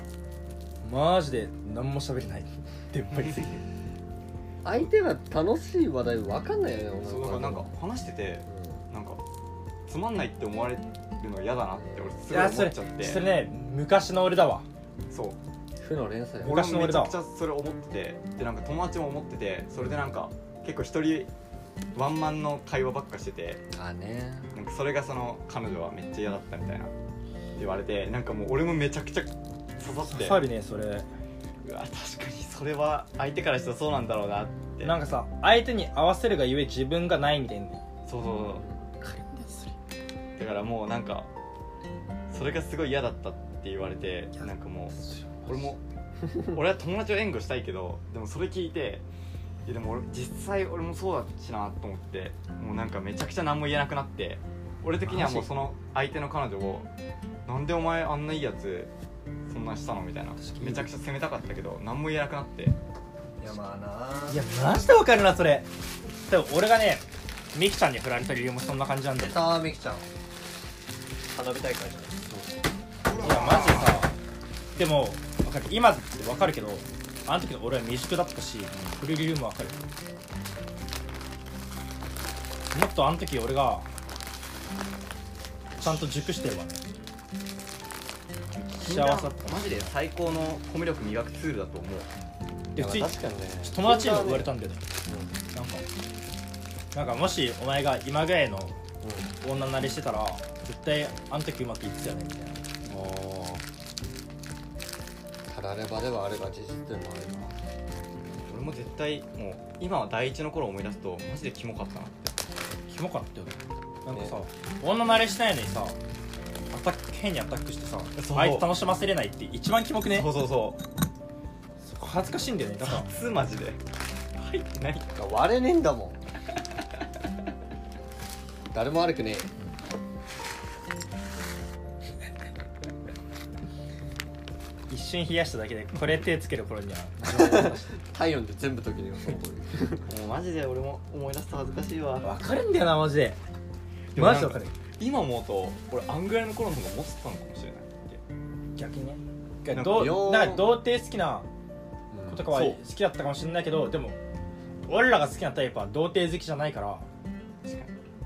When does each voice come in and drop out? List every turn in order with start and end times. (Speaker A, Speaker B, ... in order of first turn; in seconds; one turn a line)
Speaker A: 0.8-3.6
Speaker B: 4.6-7.7
Speaker C: 7.0-9.2
Speaker B: 8.5-8.8
Speaker C: 9.9-13.2
Speaker A: 12.3-14.6
Speaker C: 15.1-15.4
Speaker B: 15.8-16.6
Speaker A: 16.4-17.1
Speaker C: 16.4-21.3
Speaker C: 21.9-23.6
Speaker B: 23.7-24.5
Speaker C: 24.6-26.9
Speaker C: 27.6-30.4
Speaker A: 30.0-31.1
Speaker C: 31.6-34.9
Speaker A: 34.8-37.8
Speaker C: 38.0-38.6
Speaker A: 39.0-39.7
Speaker C: 40.4-41.3
Speaker C: 42.3-45.8
Speaker A: 44.4-45.7
Speaker C: 46.4-49.0
Speaker C: 49.6-56.9
Speaker B: 55.1-55.5
Speaker A: 55.2-55.4
Speaker C: 57.5-58.9
Speaker C: 59.5-62.8
Speaker A: 60.4-60.9
Speaker B: 63.4-64.4
Speaker A: 64.3-65.7
Speaker A: 66.2-69.5
Speaker B: 69.2-70.0
Speaker B: 71.3-72.4
Speaker C: 73.1-73.8
Speaker A: 73.2-74.1
Speaker B: 73.2-73.7
Speaker A: 74.8-79.8
Speaker A: 82.7-83.9
Speaker A: 85.8-86.8
Speaker A: 88.6-89.9
Speaker C: 88.7-92.1
Speaker A: 92.7-94.8
Speaker B: 92.8-94.5
Speaker B: 95.0-95.4
Speaker A: 95.5-95.8
Speaker A: 96.9-98.8
Speaker B: 99.0-99.3
Speaker A: 99.4-102.7
Speaker C: 102.9-103.6
Speaker B: 105.5-107.6
Speaker C: 108.4-112.4
Speaker A: 112.9-116.0
Speaker A: 116.7-120.3
Speaker C: 118.2-118.7
Speaker C: 120.1-120.8
Speaker A: 121.8-123.1
Speaker C: 122.8-123.8
Speaker C: 124.3-125.1
Speaker B: 125.1-126.2
Speaker B: 128.7-129.5
Speaker A: 134.9-137.9
Speaker B: 137.2-140.1
Speaker C: 140.1-142.3
Speaker A: 142.2-143.4
Speaker C: 144.1-148.2
Speaker A: 144.2-144.7
Speaker A: 148.8-151.5
Speaker C: 149.8-150.1
Speaker B: 149.8-150.7
Speaker B: 152.1-152.5
Speaker A: 152.3-154.2
Speaker C: 152.5-152.8
Speaker A: 154.9-157.1
Speaker C: 157.6-157.9